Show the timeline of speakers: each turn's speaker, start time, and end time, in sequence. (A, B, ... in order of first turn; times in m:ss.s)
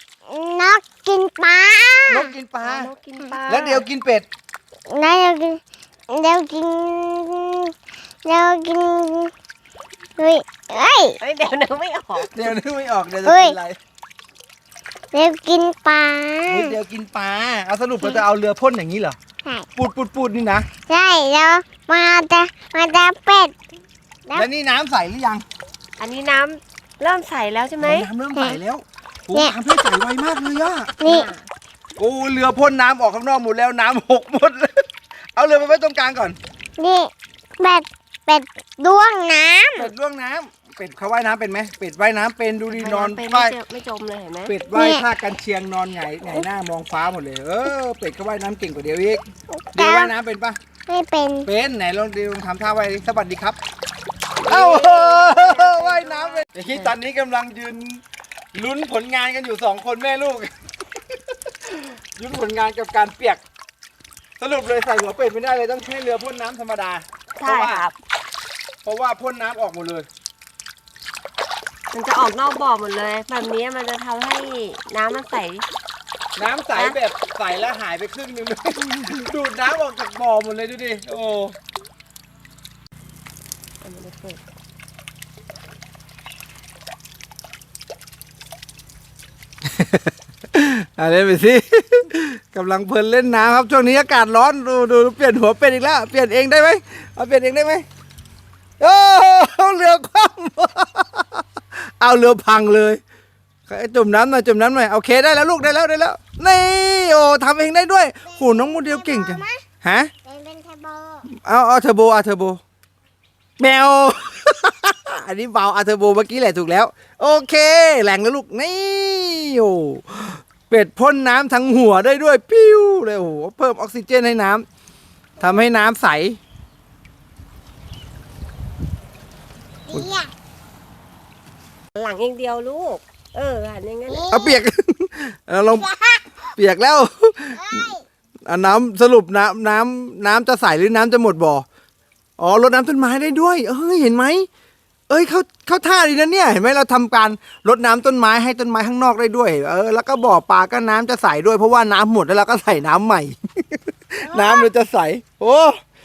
0:00.3-0:02.3 A
0:02.1-0:02.9 B
0:02.6-0:03.8 C
0:03.5-0:04.3 B
0:04.9-0:07.7 A
0:08.2-0:09.3 A
0:10.2-0:11.2 A
0:11.2-0:12.5 C
0:12.3-0:13.8 B
0:13.2-0:13.6 A
0:15.1-0:16.8 A
0:16.5-0:19.2 B
0:19.8-0:20.7 B
0:20.9-0:23.6 A
0:24.3-0:25.4 B
0:26.0-0:28.1 C
0:27.8-0:31.0 B
0:28.3-0:28.6 A
0:31.0-0:31.3 A
0:31.0-0:31.4 C
0:32.0-0:36.4 B
0:36.8-0:39.9 A
0:39.7-0:43.6 B
0:42.7-0:44.5 C
0:44.5-0:50.6 B
0:44.7-0:45.0 A
0:49.5-0:50.1 A
0:50.9-0:51.5 A
0:51.4-0:53.6 B
0:54.4-0:56.9 C
0:54.4-0:58.0 B
0:58.5-1:00.5 B
1:01.3-1:03.4 B
1:04.4-1:07.8 B
1:07.4-1:07.9 C
1:08.8-1:10.1 B
1:11.9-1:15.6 C
1:16.4-1:21.6 B
1:23.8-1:24.4 C
1:29.6-1:37.8 B
1:38.8-1:43.0 B
1:43.7-1:50.1 B
1:48.2-1:49.6 A
1:50.2-1:51.2 A
1:51.3-1:52.6 B
1:53.6-2:04.6 B
2:05.4-2:06.4 B
2:09.9-2:10.3 A
2:11.9-2:14.3 C
2:14.1-2:14.6 A
2:14.3-2:15.9 B
2:15.8-2:16.2 A
2:16.5-2:17.9 B
2:17.6-2:18.0 A
2:18.4-2:21.6 B
2:22.4-2:24.5 B
2:25.1-2:35.8 B
2:34.3-2:34.7 A